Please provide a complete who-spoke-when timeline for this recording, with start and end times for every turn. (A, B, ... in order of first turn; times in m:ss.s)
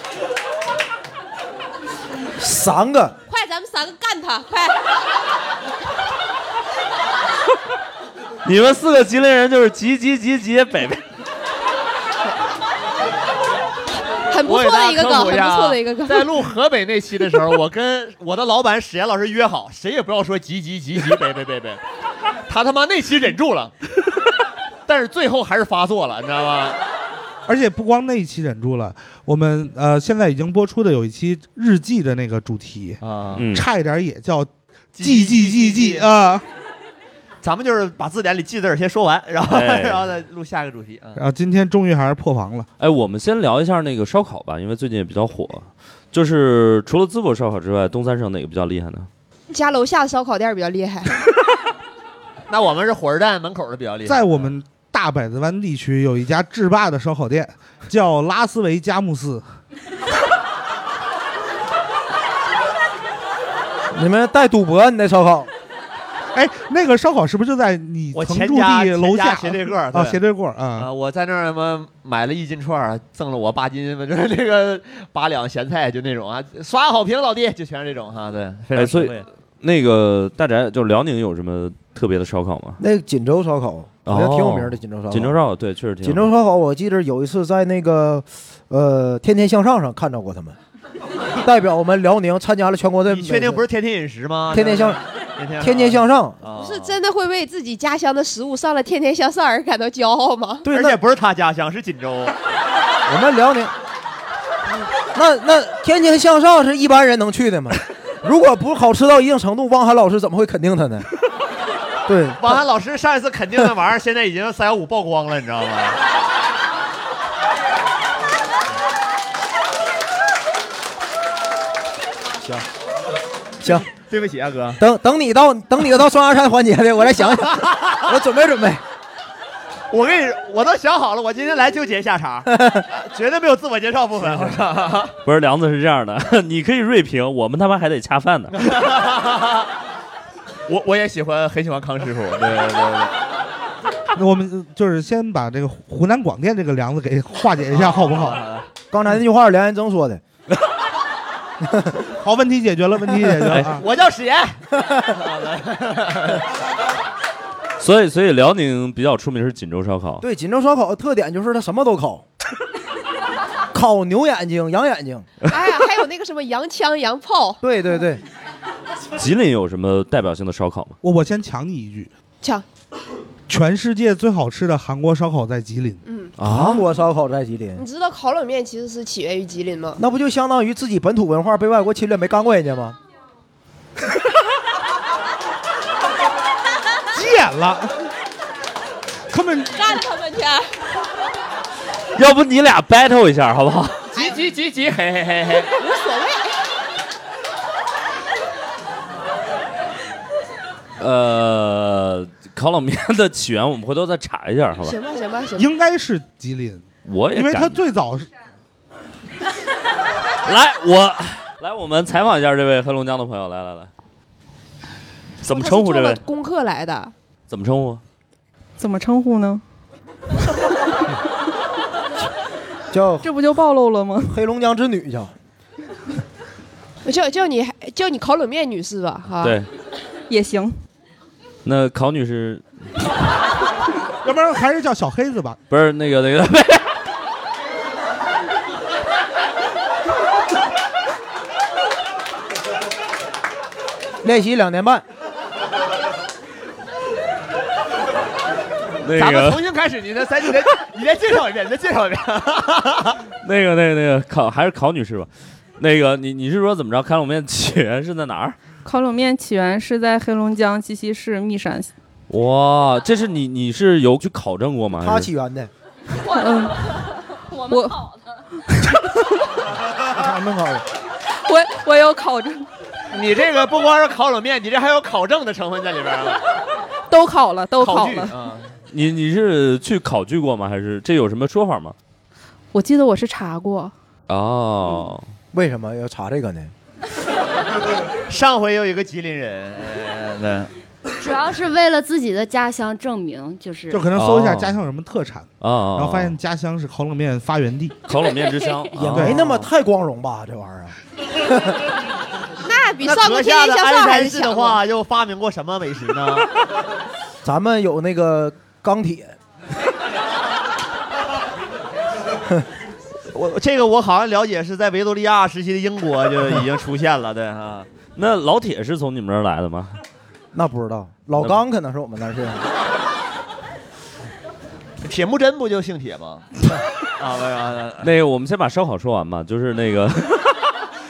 0:02.4-0:03.2 A
0:03.3-0:04.8 B
0:08.4-0:11.0 C
0:14.3-0:16.3 B
0:14.4-0:21.8 D
0:22.5-0:23.7 D
0:24.8-0:26.8 D
0:27.5-0:36.4 E
0:33.0-0:33.5 D
0:33.4-0:33.6 C
0:35.0-0:36.1 D
0:37.4-0:41.2 D
0:39.4-0:40.1 C
0:41.2-0:42.7 E
0:42.8-0:49.1 C
0:49.5-0:51.1 B
0:52.5-0:54.5 D
0:54.0-0:59.4 E
1:03.9-1:05.5 A
1:06.3-1:10.9 E
1:08.1-1:10.2 D
1:10.8-1:19.3 D
1:18.7-1:22.8 C
1:22.8-1:25.4 A
1:24.0-1:26.3 C
1:26.0-1:30.6 A
1:31.4-1:33.6 A
1:33.1-1:37.0 D
1:34.5-1:35.0 A
1:35.6-1:36.4 A
1:36.6-1:40.7 B
1:40.6-1:41.0 A
1:40.7-1:42.4 D
1:43.1-1:43.7 A
1:45.1-1:51.1 A
1:52.0-1:52.6 A
1:52.4-1:56.0 D
2:03.7-2:04.8 D
2:04.8-2:08.8 A
2:07.5-2:08.0 D
2:09.9-2:15.1 D
2:12.5-2:12.8 A
2:15.2-2:18.6 C
2:18.5-2:19.7 D
2:20.7-2:23.2 D
2:24.1-2:28.4 E
2:27.7-2:28.7 D
2:28.9-2:30.2 A
2:31.6-2:32.0 A
2:32.2-2:33.8 E
2:33.1-2:33.5 A
2:33.6-2:36.4 D
2:37.8-2:40.2 C
2:40.2-2:42.2 A
2:43.7-2:45.3 A
2:45.4-2:47.6 B
2:47.6-2:48.2 A
2:49.1-2:51.0 C
2:51.0-2:52.1 E
2:53.5-2:56.0 E
2:56.0-2:56.3 B
2:56.4-2:56.8 C
2:56.4-2:57.8 A
2:57.8-3:00.0 B
3:00.0-3:03.0 A
3:07.1-3:07.9 E
3:09.3-3:09.8 E
3:09.9-3:10.6 B
3:12.1-3:14.1 C
3:14.1-3:15.7 D
3:15.8-3:16.5 B
3:21.0-3:25.0 C
3:24.8-3:25.7 B
3:25.6-3:28.3 E
3:27.0-3:27.8 C
3:30.4-3:33.9 C
3:35.4-3:36.2 C
3:35.4-3:37.1 B
3:37.5-3:38.0 C
3:38.8-3:39.6 F
3:42.9-3:43.3 A
3:43.2-3:44.4 F
3:44.2-3:45.3 A
3:47.0-3:49.6 B
3:49.4-3:49.7 C
3:50.3-3:50.7 F
3:51.6-3:52.6 C
3:54.2-3:55.6 E
3:55.7-3:57.0 C
4:04.2-4:05.0 A
4:09.0-4:09.6 C
4:09.1-4:13.2 D
4:13.4-4:18.6 C
4:18.8-4:21.9 F
4:22.3-4:25.3 C
4:25.0-4:25.7 A
4:26.3-4:27.0 F
4:27.6-4:28.0 F
4:28.6-4:29.5 F
4:30.1-4:30.8 E
4:31.3-4:32.7 F
4:33.1-4:36.4 D
4:37.1-4:38.3 F
4:37.8-4:38.7 D
4:38.9-4:42.0 C
4:42.7-4:43.9 F
4:44.3-4:45.2 C
4:45.5-4:46.7 A
4:48.3-4:50.7 D
4:51.2-4:54.1 G
4:53.9-4:58.0 E
4:54.1-4:54.7 C
4:55.6-4:56.4 C
4:58.1-4:59.7 C
4:59.0-5:01.8 A
4:59.1-4:59.4 E
5:02.6-5:04.8 B
5:03.0-5:06.5 D
5:07.4-5:09.3 A
5:13.3-5:17.9 D
5:18.2-5:20.0 C
5:20.5-5:22.7 A
5:25.0-5:26.5 D
5:27.2-5:28.1 D
5:28.0-5:30.7 C